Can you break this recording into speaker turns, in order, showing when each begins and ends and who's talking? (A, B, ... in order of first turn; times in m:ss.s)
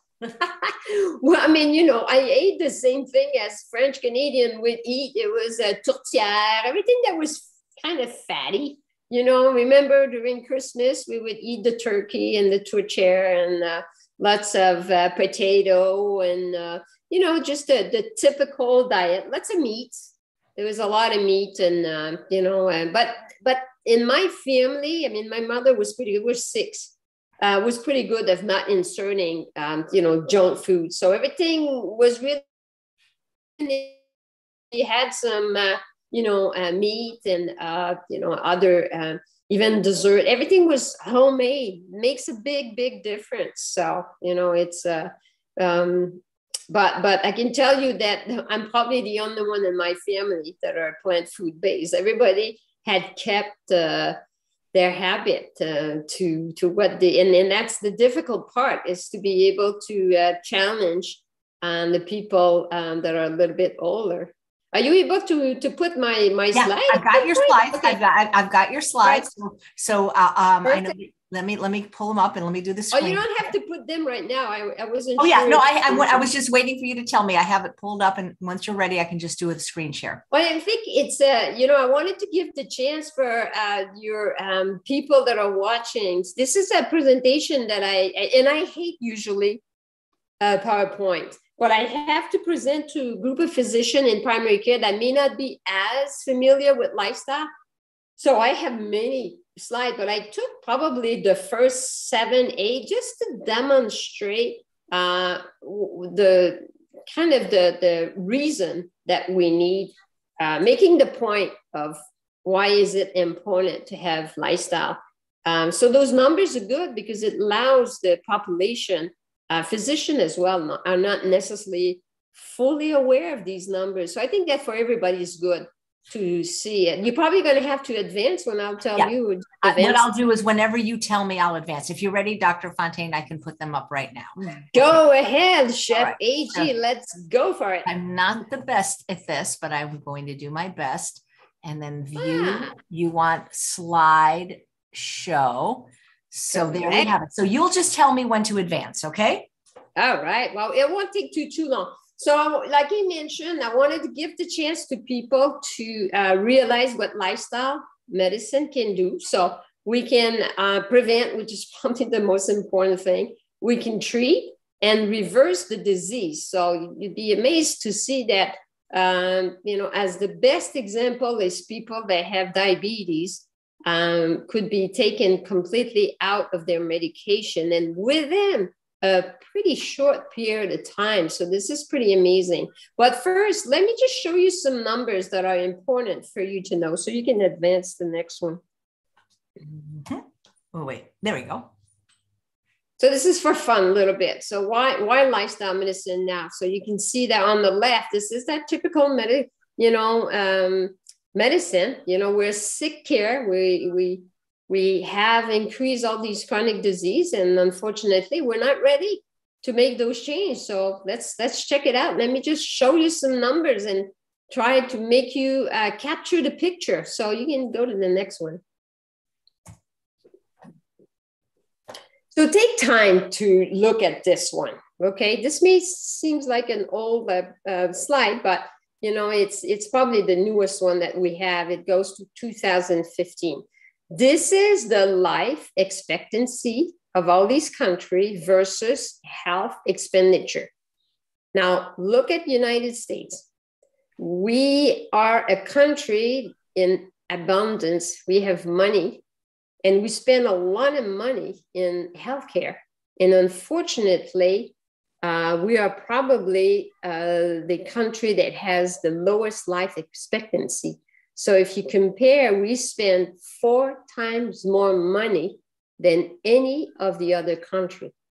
0:00.2-0:32.4 A
0:33.6-0:34.0 A
0:34.7-0:54.2 A
0:54.7-1:08.0 A
1:06.5-1:13.3 B
1:10.6-1:10.9 A
1:12.9-1:16.3 A
1:15.2-1:20.2 B
1:20.3-1:29.6 A
1:30.4-1:37.5 A
1:38.2-2:10.0 A
2:09.6-2:15.0 B
2:14.7-2:17.9 A
2:16.0-2:16.7 B
2:17.9-2:29.5 B
2:22.2-2:22.7 A
2:26.5-2:27.1 A
2:30.0-3:08.6 A
3:09.6-3:11.7 B
3:13.0-3:38.6 A
3:42.3-4:00.7 A
4:01.5-4:03.4 A
4:04.2-4:09.2 A
4:09.8-4:28.1 A